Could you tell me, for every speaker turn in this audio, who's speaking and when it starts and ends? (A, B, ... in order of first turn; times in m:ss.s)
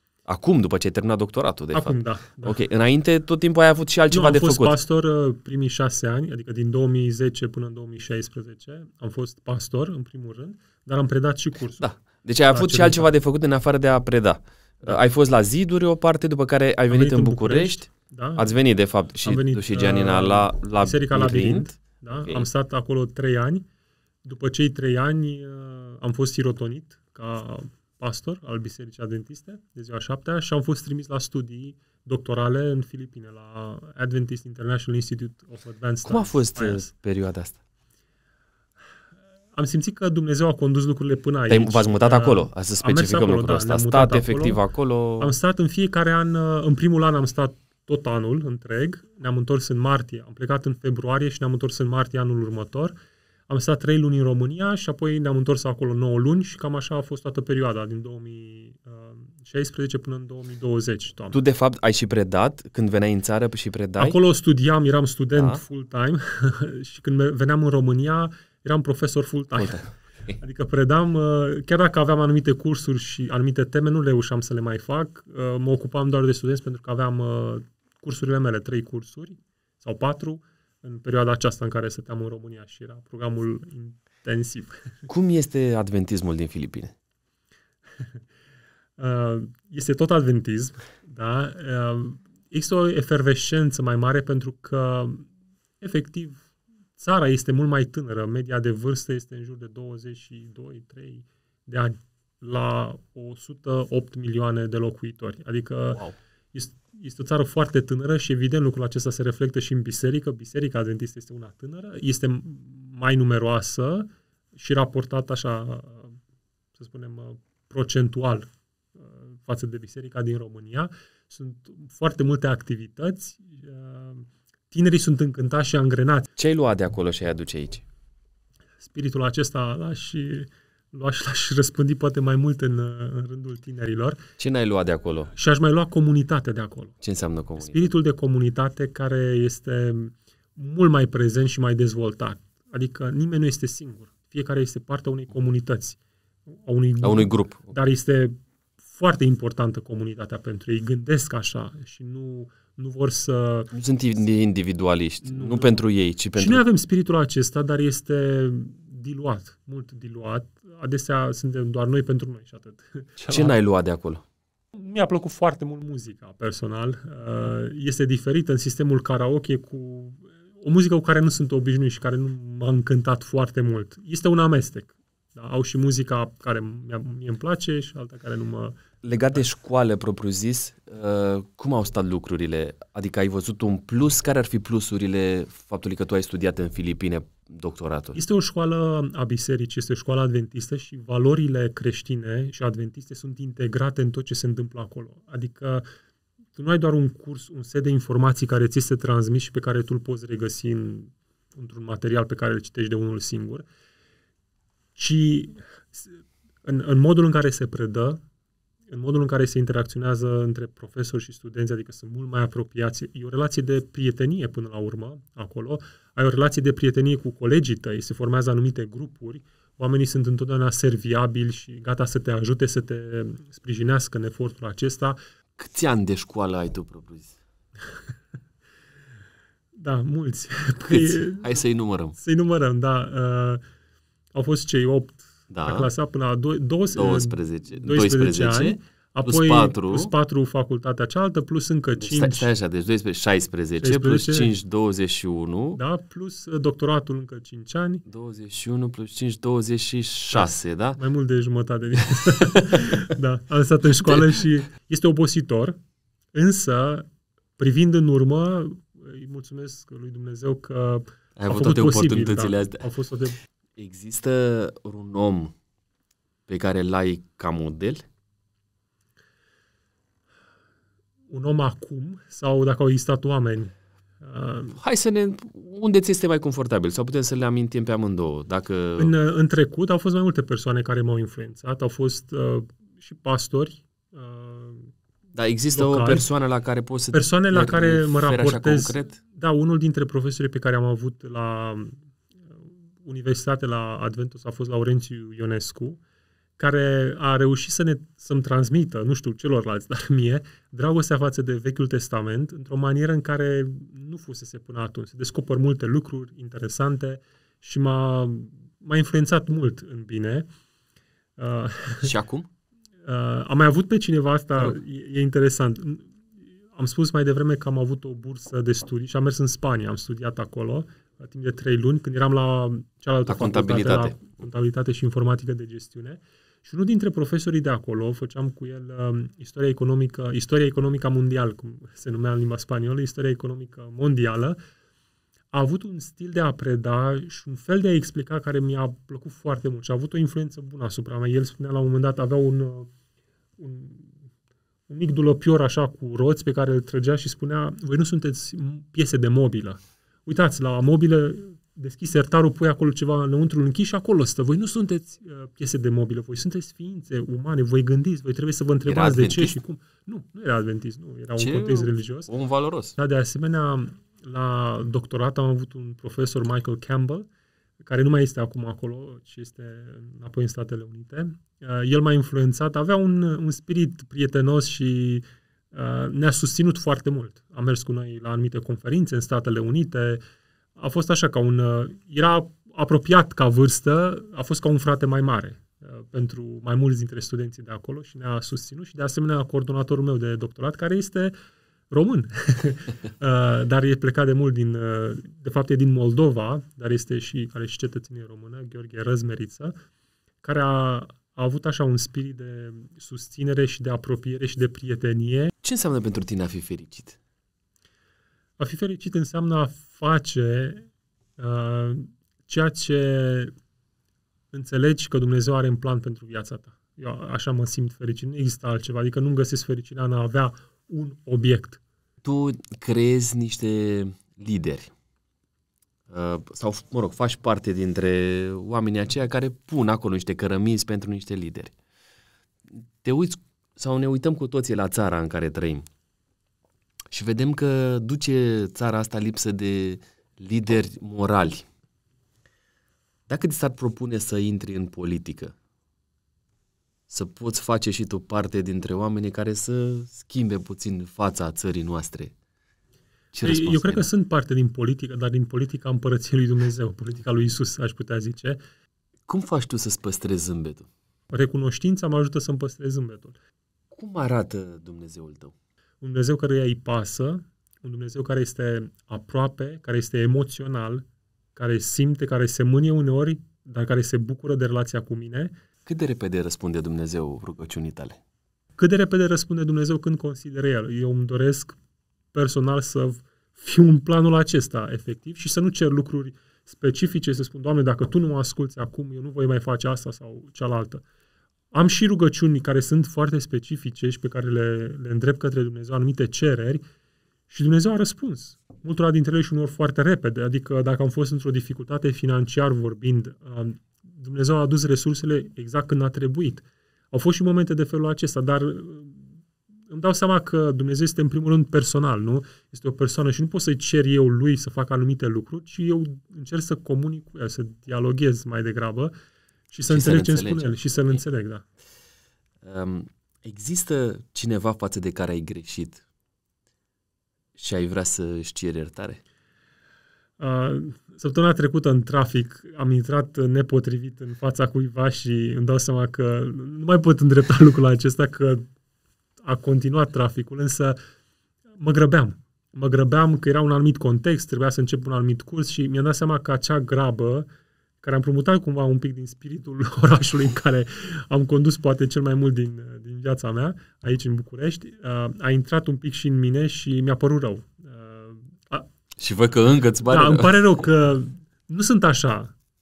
0:00.3-0:04.8 A
0:01.7-0:02.6 B
0:04.1-0:11.9 B
0:11.8-0:22.4 A
0:12.5-0:13.1 B
0:16.9-0:18.5 B
0:19.2-0:23.6 B
0:24.2-0:36.9 B
0:36.0-0:37.6 A
0:39.5-0:44.6 B
0:41.5-0:45.3 A
0:45.2-0:52.9 B
0:53.5-1:01.4 B
1:01.3-1:04.2 A
1:04.0-1:09.8 B
1:05.4-1:05.6 A
1:09.6-1:10.3 A
1:10.4-1:25.0 B
1:25.1-1:26.9 A
1:29.0-1:35.3 B
1:35.8-1:36.4 B
1:37.0-1:56.2 B
1:56.8-2:06.3 B
2:06.4-2:07.8 A
2:08.8-2:14.2 B
2:14.4-2:15.3 A
2:15.3-2:16.9 B
2:17.0-2:17.9 A
2:17.6-2:33.7 B
2:27.0-2:27.7 A
2:33.7-2:36.6 A
2:35.2-2:35.8 B
2:36.3-2:43.5 B
2:43.2-2:44.2 A
2:44.7-2:58.8 B
2:59.0-3:08.2 A
3:08.1-3:15.8 B
3:16.5-3:23.6 B
3:25.0-3:28.2 B
3:28.9-3:45.2 B
3:45.6-3:47.4 A
3:49.8-3:51.5 B
3:50.9-3:52.2 A
3:52.2-3:53.6 B
3:54.3-4:02.5 B
3:55.5-3:55.9 A
3:56.9-4:00.1 A
4:02.0-4:05.8 A
4:03.8-4:04.5 B
4:05.7-4:08.0 B
4:08.0-4:11.0 A
4:10.3-4:15.8 B
4:12.3-4:13.1 A
4:16.3-4:17.1 B
4:17.6-4:23.4 B
4:21.4-4:22.9 A
4:23.8-4:25.5 A
4:26.5-4:28.0 A
4:31.3-4:34.8 B
4:34.7-4:39.1 A
4:39.0-4:44.9 B
4:45.4-4:49.2 A
4:45.7-4:46.2 B
4:47.1-4:52.0 B
4:53.0-4:56.0 B
4:56.6-5:10.5 B
5:11.4-5:12.1 B
5:12.0-5:12.5 A
5:13.0-5:16.1 B
5:16.7-5:34.6 B
5:23.3-5:24.2 A
5:35.5-5:42.9 B
5:43.6-5:44.1 B
5:44.9-6:02.3 B
5:58.8-5:59.6 A
6:01.4-6:03.0 A
6:03.0-6:07.3 B
6:07.8-6:20.2 B
6:20.8-6:31.3 B
6:31.9-6:39.7 B
6:40.4-6:45.5 B
6:45.6-6:47.2 A
6:48.6-6:53.5 B
6:54.5-7:01.8 B
7:02.2-7:04.9 A
7:06.1-7:11.7 A
7:13.0-7:15.8 A
7:17.1-7:21.6 A
7:23.3-7:25.5 A
7:27.1-7:32.3 A
7:33.3-7:34.1 A
7:33.4-7:38.6 B
7:39.3-7:40.9 A
7:41.3-7:43.4 B
7:43.9-7:45.5 A
7:46.0-7:51.0 B
7:51.6-7:55.6 B
7:55.8-7:58.2 A
7:58.8-8:01.8 B
8:02.3-8:11.0 B
8:11.7-8:16.8 B
8:17.5-8:29.4 B
8:29.9-8:39.1 B
8:39.7-8:41.6 B
8:39.9-8:40.7 A
8:42.6-8:46.0 A
8:47.6-8:49.2 A
8:50.4-8:58.6 B
8:59.4-9:01.0 B
9:01.8-9:07.5 B
9:08.0-9:18.9 B
9:19.2-9:20.6 A
9:20.1-9:22.5 B